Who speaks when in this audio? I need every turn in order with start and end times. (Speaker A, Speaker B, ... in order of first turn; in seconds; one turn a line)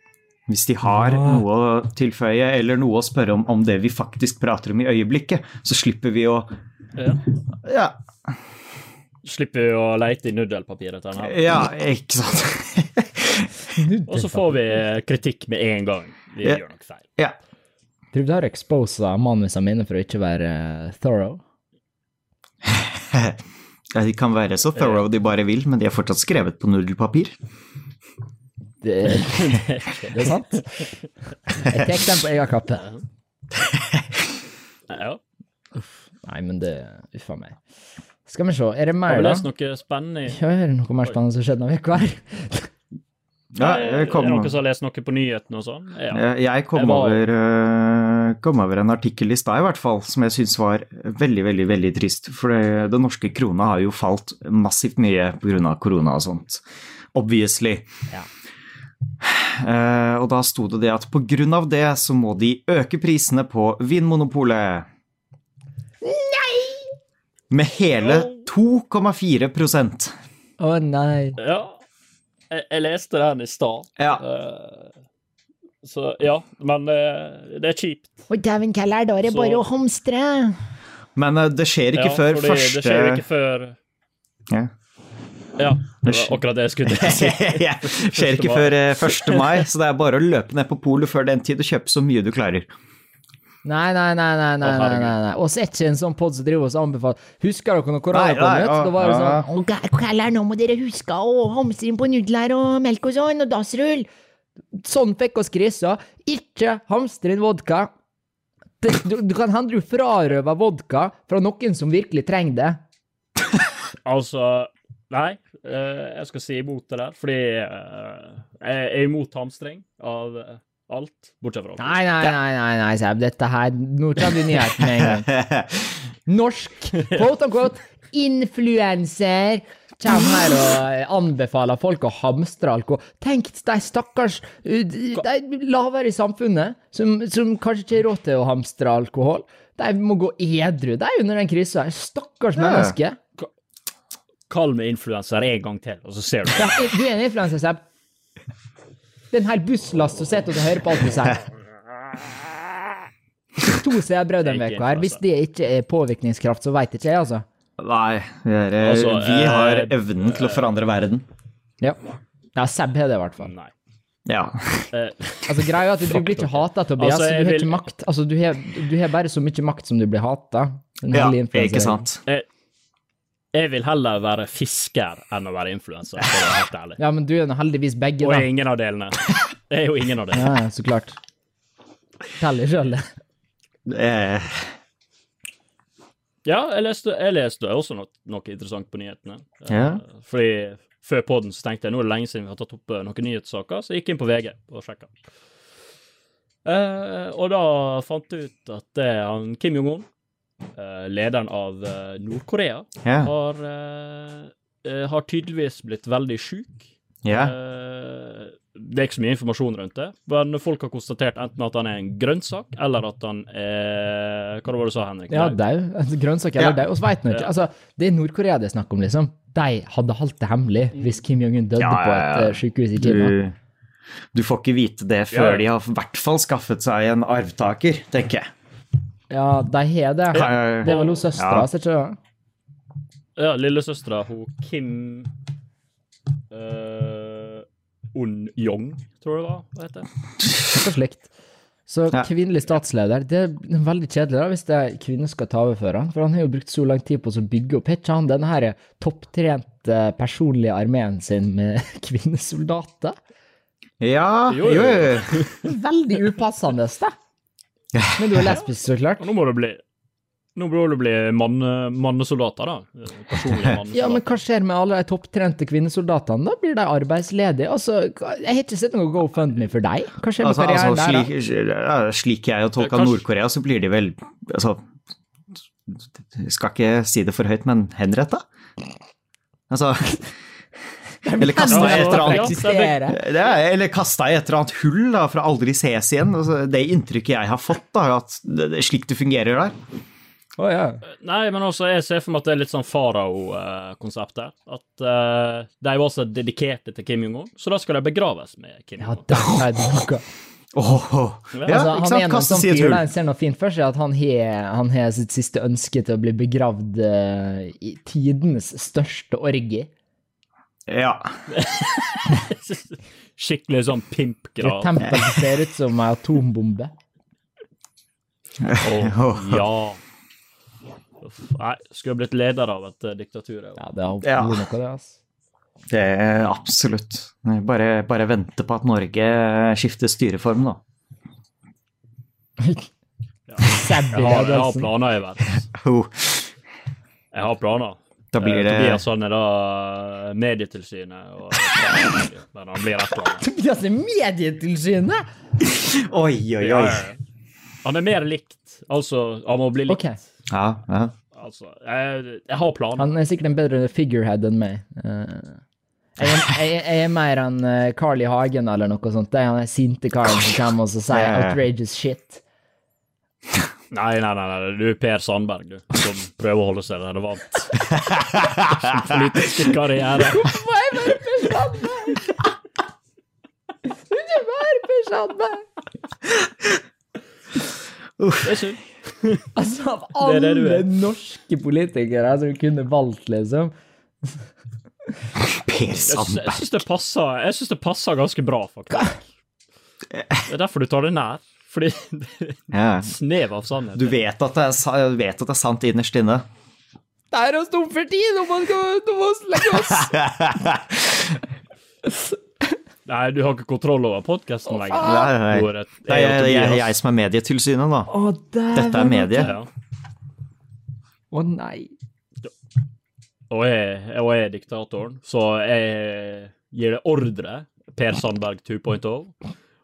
Speaker A: 0.5-6.5
Speaker B: 1.0-1.4
Speaker C: 7.0-7.2
Speaker A: 7.6-8.0
Speaker C: 9.2-11.6
Speaker A: 11.2-13.6
Speaker B: 13.8-14.8
Speaker C: 14.1-17.1
Speaker B: 18.1-21.4
Speaker A: 22.7-23.4
Speaker A: 23.9-27.3
Speaker C: 24.8-25.0
Speaker B: 28.8-30.9
Speaker C: 29.3-30.4
Speaker B: 31.6-32.9
Speaker A: 33.6-34.2
Speaker C: 34.9-35.2
Speaker B: 35.8-37.6
Speaker B: 38.3-39.5
Speaker C: 39.1-40.4
Speaker B: 40.3-42.7
Speaker A: 43.5-44.5
Speaker C: 43.6-47.2
Speaker A: 46.1-56.6
Speaker A: 57.1-57.9
Speaker A: 59.2-64.9
Speaker B: 66.0-66.8
Speaker A: 67.5-70.2
Speaker C: 68.0-68.5
Speaker B: 70.6-71.4
Speaker C: 71.4-71.8
Speaker C: 72.5-74.9
Speaker A: 74.0-74.2
Speaker C: 75.8-78.2
Speaker B: 78.3-80.6
Speaker C: 79.3-79.6
Speaker A: 81.2-83.2
Speaker C: 81.9-83.8
Speaker C: 85.6-89.6
Speaker A: 86.0-92.7
Speaker B: 93.6-104.1
Speaker C: 94.6-95.2
Speaker A: 98.1-99.5
Speaker B: 104.8-107.9
Speaker B: 108.8-112.8
Speaker C: 114.0-122.0
Speaker B: 121.8-125.3
Speaker A: 124.8-126.0
Speaker B: 126.3-143.2
Speaker A: 142.6-142.9
Speaker C: 144.5-146.9
Speaker B: 146.5-147.8
Speaker B: 149.3-151.5
Speaker B: 153.6-157.4
Speaker C: 154.4-155.2
Speaker A: 157.8-161.3
Speaker C: 158.8-160.7
Speaker B: 162.6-163.5
Speaker C: 163.4-163.7
Speaker A: 164.3-164.9
Speaker C: 164.9-167.8
Speaker B: 165.5-172.1
Speaker A: 171.1-172.2
Speaker C: 173.5-177.0
Speaker B: 177.0-178.5
Speaker C: 178.2-180.5
Speaker B: 180.3-181.2
Speaker B: 182.4-183.1
Speaker A: 183.9-184.8
Speaker C: 186.4-195.2
Speaker A: 189.7-190.0
Speaker C: 196.7-200.1
Speaker C: 200.8-215.6
Speaker A: 203.1-203.3
Speaker A: 207.2-207.6
Speaker B: 215.3-223.4
Speaker A: 221.8-223.6
Speaker A: 224.3-228.5
Speaker C: 225.3-225.7
Speaker B: 229.3-232.2
Speaker A: 230.3-231.7
Speaker C: 230.4-231.2
Speaker C: 233.4-235.3
Speaker C: 236.5-240.1
Speaker B: 240.7-241.3
Speaker B: 241.9-253.2
Speaker A: 254.0-255.4
Speaker C: 254.5-255.6
Speaker B: 255.6-257.1
Speaker A: 257.9-258.5
Speaker B: 258.2-259.3
Speaker C: 259.2-259.8
Speaker C: 260.6-264.2
Speaker A: 263.5-263.8
Speaker B: 263.9-271.3
Speaker A: 270.4-274.8
Speaker C: 272.8-273.2
Speaker A: 275.9-278.4
Speaker A: 279.7-280.3
Speaker B: 281.2-283.2
Speaker A: 281.4-289.8
Speaker C: 281.7-283.0
Speaker B: 290.6-291.0
Speaker C: 291.2-299.3
Speaker B: 299.0-300.2
Speaker A: 300.7-303.0
Speaker C: 301.5-301.8
Speaker B: 301.7-309.9
Speaker A: 310.9-311.5
Speaker C: 311.5-315.1
Speaker B: 314.6-316.9
Speaker A: 318.6-319.6
Speaker C: 318.8-320.0
Speaker C: 321.2-323.8
Speaker B: 323.8-325.2
Speaker A: 324.2-324.7
Speaker A: 325.9-330.8
Speaker B: 332.6-332.9
Speaker C: 333.5-335.6
Speaker B: 333.6-334.9
Speaker A: 335.7-336.5
Speaker C: 337.3-343.4
Speaker A: 338.3-339.0
Speaker B: 343.4-345.2
Speaker A: 345.6-347.1
Speaker C: 346.6-347.2
Speaker C: 347.8-350.1
Speaker B: 349.9-350.2
Speaker A: 350.5-351.1
Speaker C: 351.3-353.1
Speaker B: 353.0-355.6
Speaker B: 356.2-362.4
Speaker A: 361.1-361.6
Speaker C: 363.9-367.9
Speaker A: 367.9-369.2
Speaker C: 368.8-370.5
Speaker B: 370.3-372.3
Speaker B: 373.9-375.7
Speaker A: 378.2-378.6
Speaker C: 378.4-379.5
Speaker B: 379.6-383.7
Speaker C: 380.2-380.9
Speaker A: 385.4-386.7
Speaker C: 386.0-389.2
Speaker A: 390.1-390.4
Speaker C: 390.4-394.1
Speaker A: 392.7-393.1
Speaker A: 393.9-396.5
Speaker B: 397.3-400.2
Speaker A: 399.7-401.4
Speaker C: 403.1-406.9
Speaker B: 404.7-405.3
Speaker A: 405.0-408.1
Speaker B: 408.1-409.5
Speaker A: 408.7-409.6
Speaker C: 409.4-409.7
Speaker B: 411.3-411.9
Speaker C: 413.5-419.3